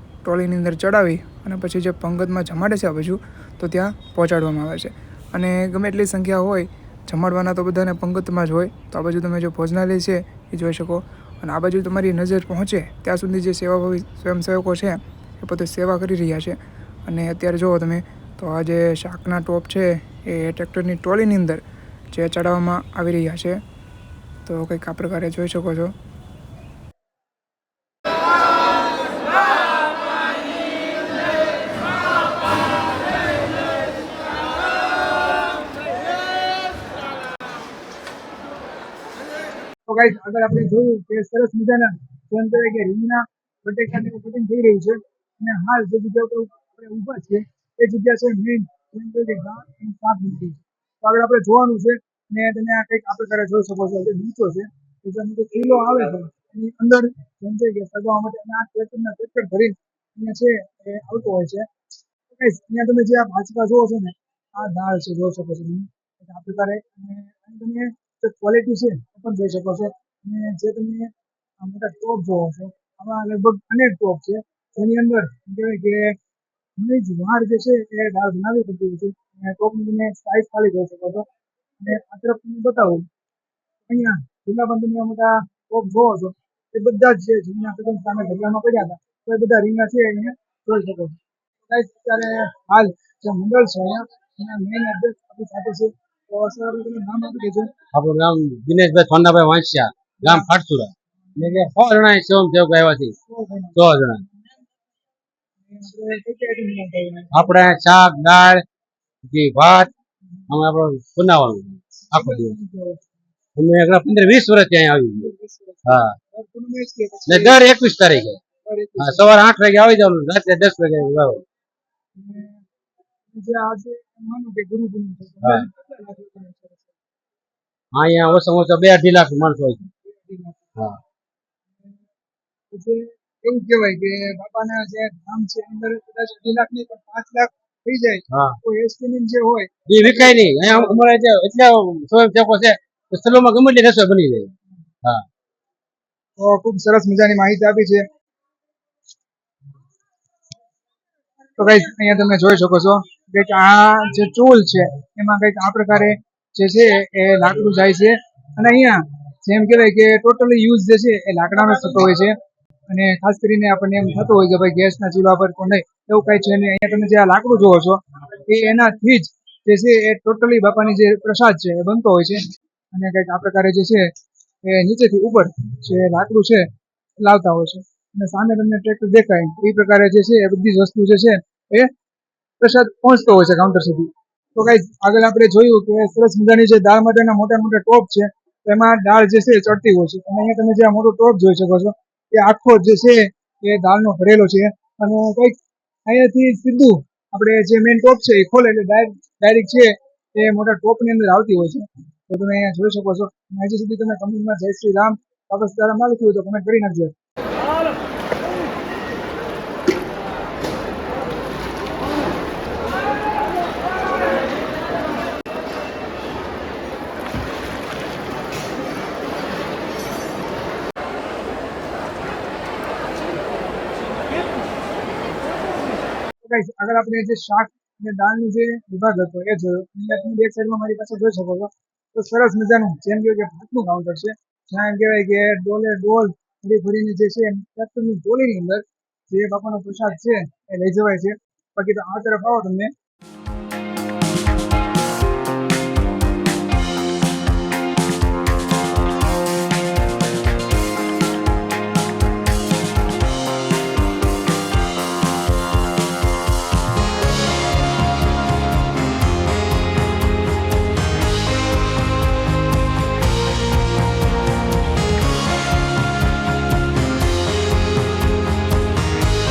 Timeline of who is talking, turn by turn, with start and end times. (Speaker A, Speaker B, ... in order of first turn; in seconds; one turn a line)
Speaker A: 0.2-21.6
Speaker A: 22.1-23.6
Speaker A: 24.5-25.9
Speaker B: 39.9-61.7
Speaker B: 62.3-76.2
Speaker B: 76.8-81.2
Speaker B: 81.8-83.0
Speaker B: 83.9-91.2
Speaker B: 91.7-97.7
Speaker C: 97.9-103.1
Speaker B: 101.4-101.7
Speaker B: 103.3-104.2
Speaker C: 103.8-104.2
Speaker B: 105.7-107.6
Speaker C: 107.3-108.7
Speaker C: 109.3-109.9
Speaker C: 110.5-112.5
Speaker B: 112.1-113.0
Speaker C: 113.6-115.2
Speaker B: 115.2-115.8
Speaker B: 116.3-117.8
Speaker C: 117.3-118.4
Speaker B: 118.4-119.4
Speaker C: 119.0-121.4
Speaker B: 122.2-122.6
Speaker B: 123.3-126.9
Speaker C: 127.9-129.8
Speaker B: 130.1-130.7
Speaker B: 132.7-140.9
Speaker C: 139.9-144.5
Speaker B: 146.4-148.0
Speaker B: 151.6-162.3
Speaker B: 162.9-174.1
Speaker B: 174.6-176.7
Speaker B: 177.2-181.9
Speaker B: 182.6-207.1
Speaker B: 226.4-242.9